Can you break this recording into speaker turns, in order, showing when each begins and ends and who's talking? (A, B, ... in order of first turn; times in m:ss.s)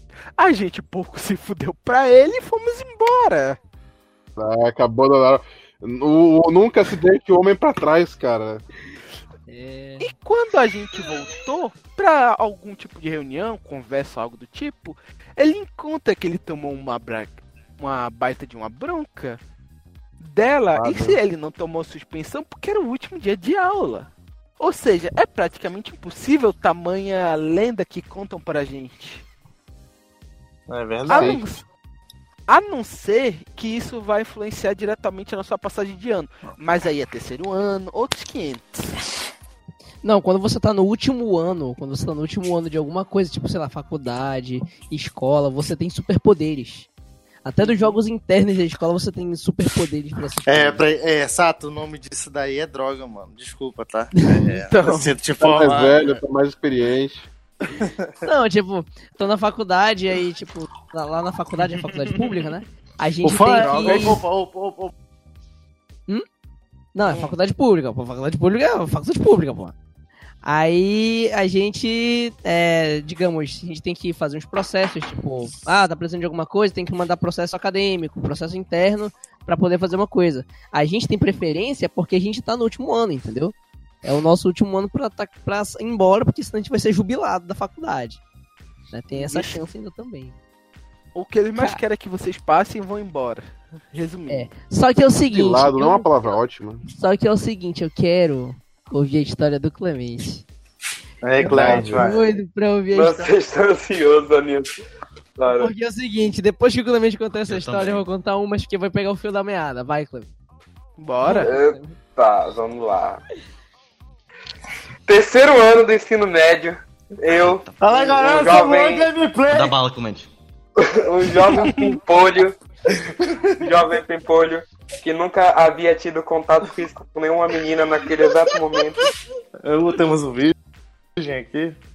0:00.4-0:03.6 A
0:04.4-0:08.6 B
0:09.5-0:10.1 C
0:10.0-0:19.4 A
0:20.2-0:29.3 A
0:20.8-0:21.1 B
0:20.8-0:21.1 D
0:30.7-0:31.4 D
0:31.1-0:31.6 A
0:31.1-0:31.4 B
0:32.5-0:39.0 A
0:40.0-0:46.9 C
0:47.4-0:50.8 C
0:47.6-0:48.0 A
0:50.5-0:56.2 D
0:54.5-0:55.1 A
0:55.4-0:57.3 B
0:57.7-0:58.1 D
0:58.2-1:04.2 C
1:03.2-1:04.9 D
1:03.6-1:04.2 A
1:06.9-1:09.7 C
1:10.4-1:28.2 C
1:28.9-1:30.4 C
1:29.1-1:29.6 A
1:31.2-1:34.5 A
1:31.6-1:31.8 C
1:34.3-1:36.1 C
1:35.3-1:36.9 B
1:36.9-1:40.4 C
1:41.2-1:42.2 D
1:41.4-1:43.3 C
1:41.6-1:42.0 B
1:41.6-1:42.1 E
1:42.9-1:44.8 E
1:45.4-1:45.7 E
1:45.6-1:50.3 C
1:47.5-1:48.1 F
1:51.0-1:51.5 A
1:51.2-1:52.0 C
1:51.3-1:53.2 E
1:55.1-1:59.1 E
1:57.3-1:58.2 F
1:57.8-1:59.8 D
1:59.5-2:00.3 F
2:00.8-2:02.6 E
2:01.5-2:01.9 A
2:03.1-2:03.5 D
2:03.6-2:09.1 E
2:09.6-2:10.6 D
2:11.2-2:11.8 D